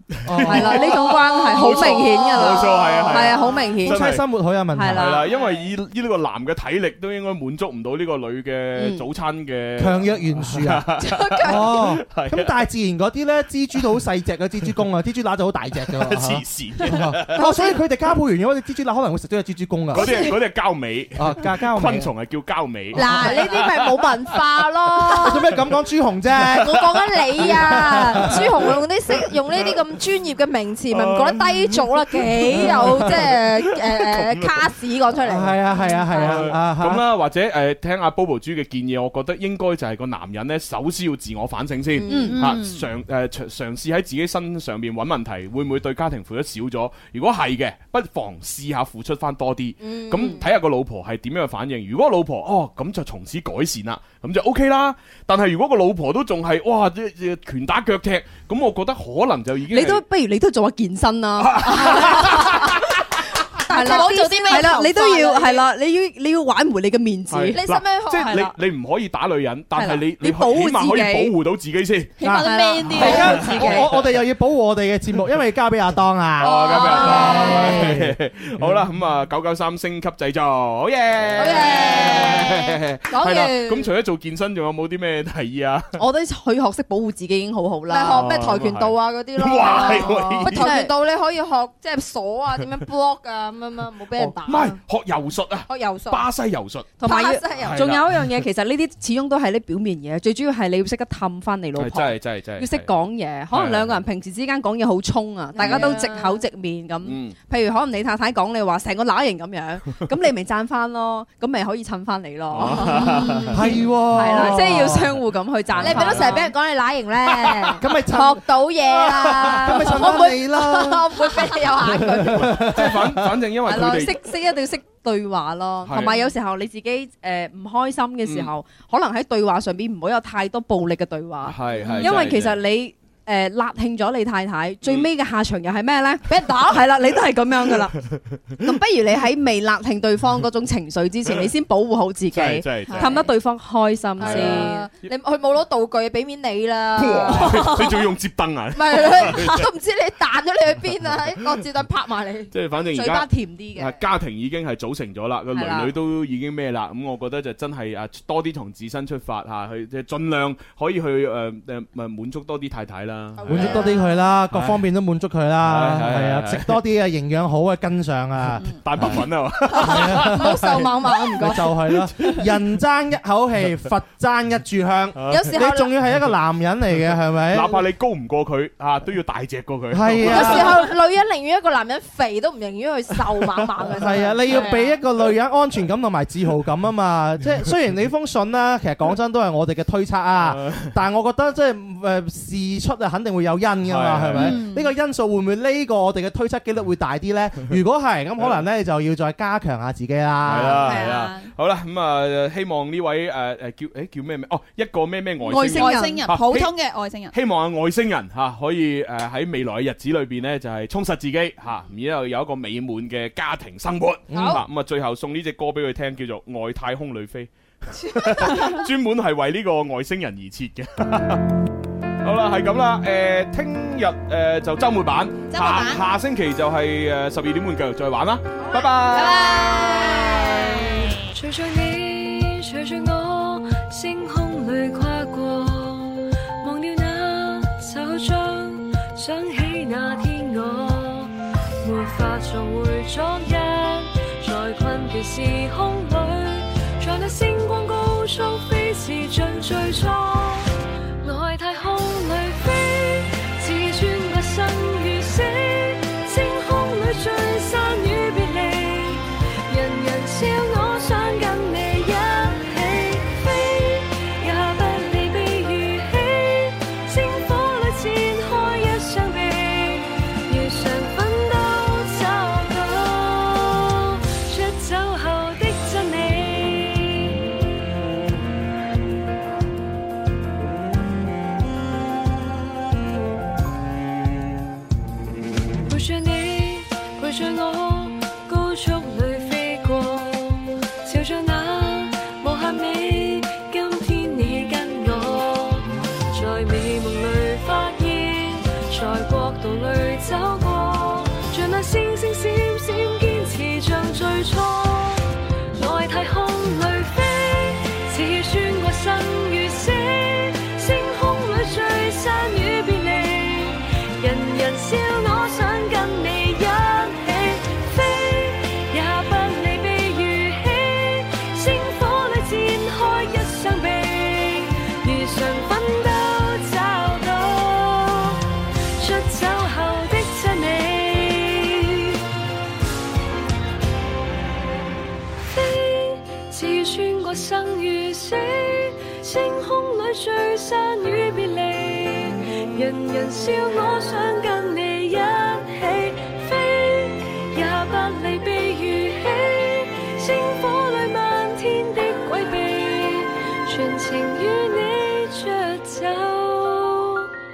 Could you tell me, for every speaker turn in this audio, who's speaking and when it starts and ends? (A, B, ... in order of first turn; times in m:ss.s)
0:00.2-0:04.2 A
0:00.3-0:00.8 B
0:00.4-0:04.1 C
0:01.0-0:03.7 D
0:03.8-0:05.0 B
0:04.7-0:05.4 C
0:04.9-0:12.6 A
0:08.8-0:09.1 C
0:09.8-0:20.1 B
0:11.0-0:11.7 D
0:15.8-0:17.4 A
0:17.4-0:17.8 D
0:19.9-0:25.7 A
0:19.9-0:20.3 D
0:21.2-0:22.1 B
0:22.9-0:25.4 D
0:25.2-0:26.8 B
0:26.6-0:35.6 D
0:27.4-0:28.4 A
0:30.9-0:34.7 A
0:35.3-0:37.0 B
0:36.1-0:36.4 D
0:36.1-1:00.0 A
0:42.0-0:42.3 D
0:42.0-0:42.4 C
0:42.1-0:42.9 E
0:49.8-0:50.5 D
0:59.7-1:02.7 C
1:01.4-1:02.9 A
1:03.7-1:07.6 C
1:03.7-1:05.6 D
1:03.8-1:05.6 E
1:07.3-1:12.1 A
1:07.5-1:08.4 D
1:08.3-1:08.5 C
1:09.7-1:11.4 C
1:12.2-1:13.7 E
1:12.2-1:18.9 B
1:12.4-1:13.9 C
1:13.0-1:13.9 A
1:13.0-1:13.4 D
1:16.4-1:25.9 A
1:16.4-1:17.9 D
1:21.4-1:23.9 D
1:26.0-1:28.2 C
1:27.9-1:34.8 D
1:28.1-1:30.7 A
1:29.7-1:30.9 C
1:34.2-1:36.9 A
1:35.7-1:36.2 D
1:37.0-1:56.5 C
1:37.0-1:37.9 D
1:37.6-1:38.2 A
1:41.8-1:42.9 A
1:43.5-1:44.0 A
1:45.6-1:46.4 D
1:45.6-1:46.1 A
1:47.0-1:47.3 A
1:52.5-1:53.6 A
1:53.5-1:55.2 B
1:55.8-1:56.5 A
1:55.8-2:02.6 D
1:57.8-1:58.4 B
1:59.3-2:01.1 B
2:00.0-2:00.2 C
2:01.8-2:03.0 B
2:02.3-2:04.2 A
2:03.6-2:17.9 C
2:05.9-2:06.3 A
2:08.2-2:08.5 A
2:11.4-2:12.6 A
2:14.8-2:15.1 A
2:16.3-2:16.8 D
2:18.6-2:24.9 C
2:22.3-2:23.3 A
2:24.2-2:24.7 A
2:24.2-2:28.0 D
2:27.0-2:29.7 A
2:28.8-2:32.5 D
2:32.5-2:43.9 A
2:32.9-2:33.9 C
2:35.6-2:35.9 C
2:43.4-2:44.1 D
2:43.5-2:49.2 B
2:44.5-2:44.8 A
2:45.6-2:46.8 A
2:48.8-2:50.9 A
2:49.7-2:51.8 D
2:49.8-2:57.8 B
2:52.2-2:52.5 A
2:55.2-2:55.6 A
2:55.3-2:55.9 D
2:57.5-3:00.8 A
2:59.9-3:00.7 B
3:00.3-3:05.0 D
3:04.0-3:21.0 B
3:10.5-3:10.9 A
3:13.8-3:14.6 A
3:14.4-3:14.9 E
3:20.4-3:26.7 A
3:20.8-3:21.5 E
3:25.5-3:27.4 E
3:25.5-3:26.5 C
3:27.3-3:41.5 A
3:34.3-3:34.6 B
3:42.2-3:49.8 A
3:45.5-3:46.0 E
3:49.1-3:50.8 E
3:49.9-3:50.2 D
3:51.3-4:37.3 F
4:45.9-5:28.4 F
5:29.0-5:32.2 F
5:35.4-5:57.3 F